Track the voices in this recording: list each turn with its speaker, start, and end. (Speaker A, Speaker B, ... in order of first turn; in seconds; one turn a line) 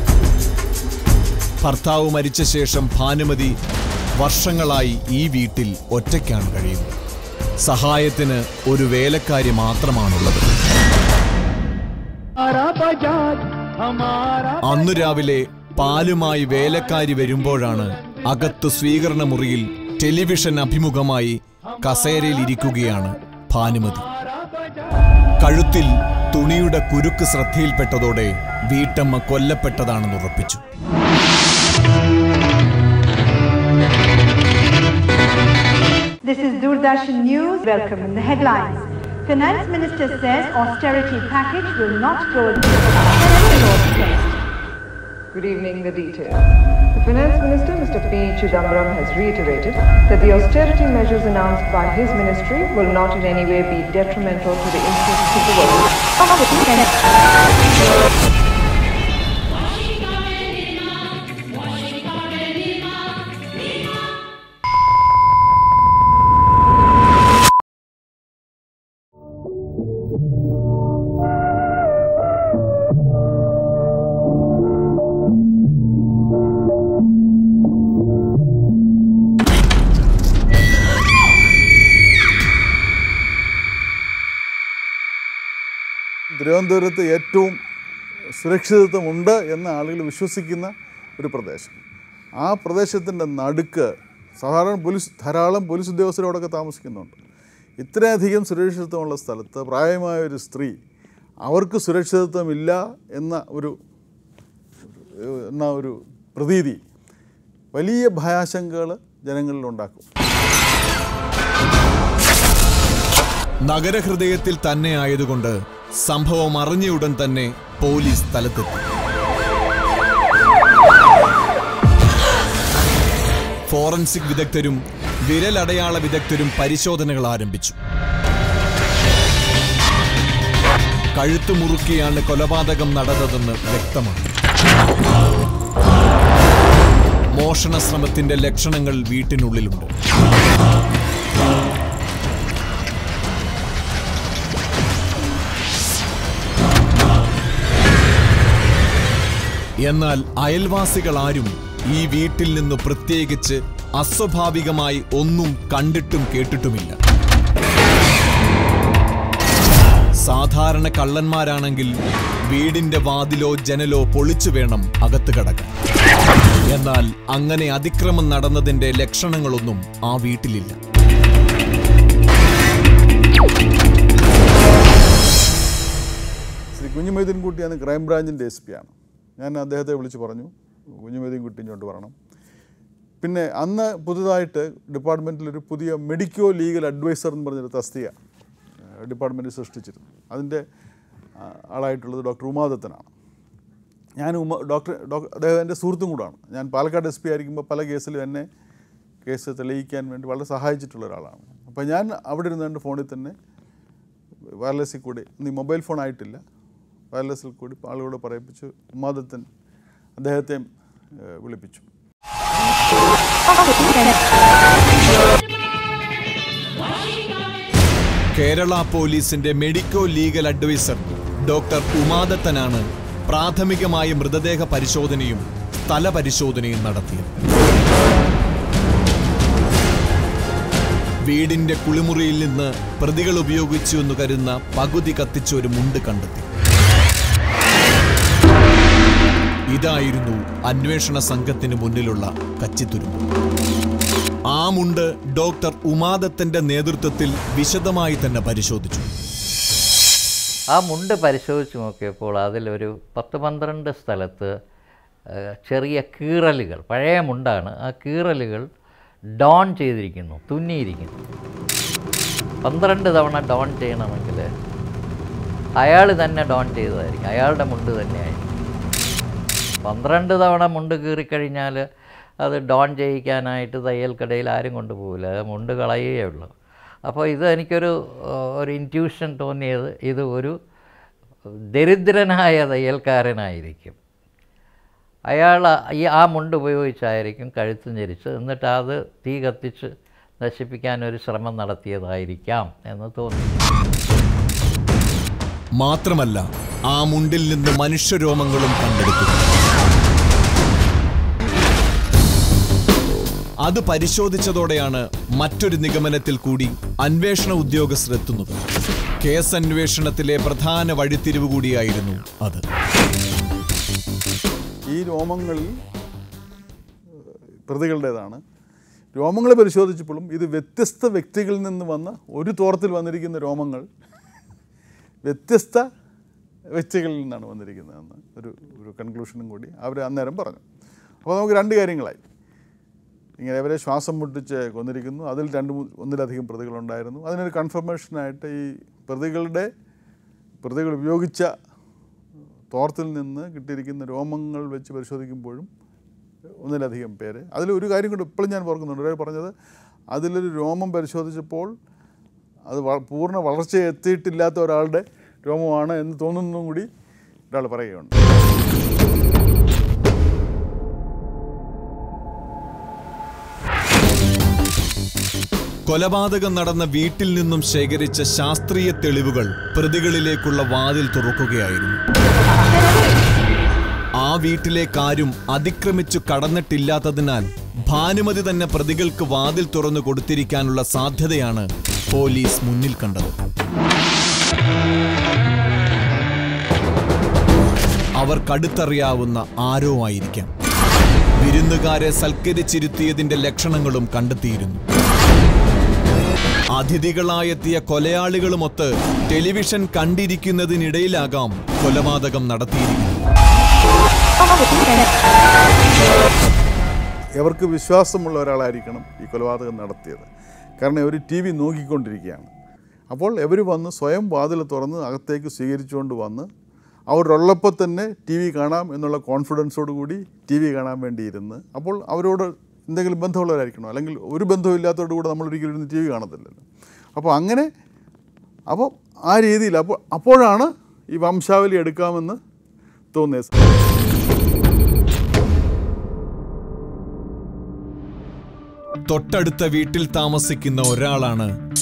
Speaker A: 1.6-3.5
Speaker A: 4.2-7.0
Speaker A: 7.6-10.5
Speaker A: 14.6-24.1
Speaker A: 25.4-30.6
Speaker B: 36.2-43.4
Speaker C: 43.2-44.4
Speaker C: 45.3-56.0
Speaker B: 56.4-56.8
Speaker D: 86.3-87.6
Speaker D: 88.4-91.8
Speaker D: 92.4-97.2
Speaker D: 97.8-100.8
Speaker D: 101.4-103.7
Speaker D: 105.2-106.8
Speaker D: 107.7-110.1
Speaker A: 113.7-118.9
Speaker A: 123.7-127.8
Speaker A: 131.1-134.3
Speaker A: 137.4-139.9
Speaker A: 149.8-157.0
Speaker A: 160.2-161.9
Speaker A: 162.5-165.7
Speaker A: 166.7-170.8
Speaker D: 176.8-180.5
Speaker D: 181.0-182.1
Speaker D: 183.2-188.2
Speaker D: 189.0-190.6
Speaker D: 191.4-193.1
Speaker D: 194.2-198.4
Speaker D: 199.2-203.3
Speaker D: 204.6-206.4
Speaker D: 207.1-209.5
Speaker D: 210.2-210.6
Speaker D: 211.3-211.9
Speaker B: 213.7-214.1
Speaker A: 218.3-227.4
Speaker A: 231.3-236.5
Speaker A: 239.7-243.2
Speaker A: 244.5-249.1
Speaker E: 250.7-254.5
Speaker E: 255.7-258.7
Speaker E: 259.4-261.2
Speaker E: 262.6-264.5
Speaker E: 265.8-268.5
Speaker E: 269.8-271.9
Speaker E: 272.4-276.5
Speaker E: 277.1-280.5
Speaker E: 281.7-284.0
Speaker E: 285.3-293.6
Speaker A: 295.8-299.4
Speaker A: 303.6-308.6
Speaker A: 309.2-312.6
Speaker D: 314.9-315.7
Speaker D: 317.6-318.4
Speaker D: 319.1-323.9
Speaker D: 325.2-325.9
Speaker D: 326.8-330.6
Speaker D: 331.2-332.2
Speaker D: 333.4-339.7
Speaker D: 340.6-341.5
Speaker D: 342.7-345.7
Speaker D: 346.6-349.5
Speaker D: 350.1-351.7
Speaker D: 352.7-356.9
Speaker D: 357.5-358.2
Speaker A: 365.9-372.0
Speaker A: 374.2-383.4
Speaker A: 388.2-390.5
Speaker A: 391.4-394.8
Speaker A: 396.7-403.3
Speaker B: 404.8-405.0
Speaker D: 407.4-410.3
Speaker D: 410.8-412.5
Speaker D: 413.1-416.5
Speaker D: 417.1-426.6
Speaker D: 427.2-427.7
Speaker D: 428.7-432.4
Speaker D: 433.1-433.5
Speaker A: 439.1-441.5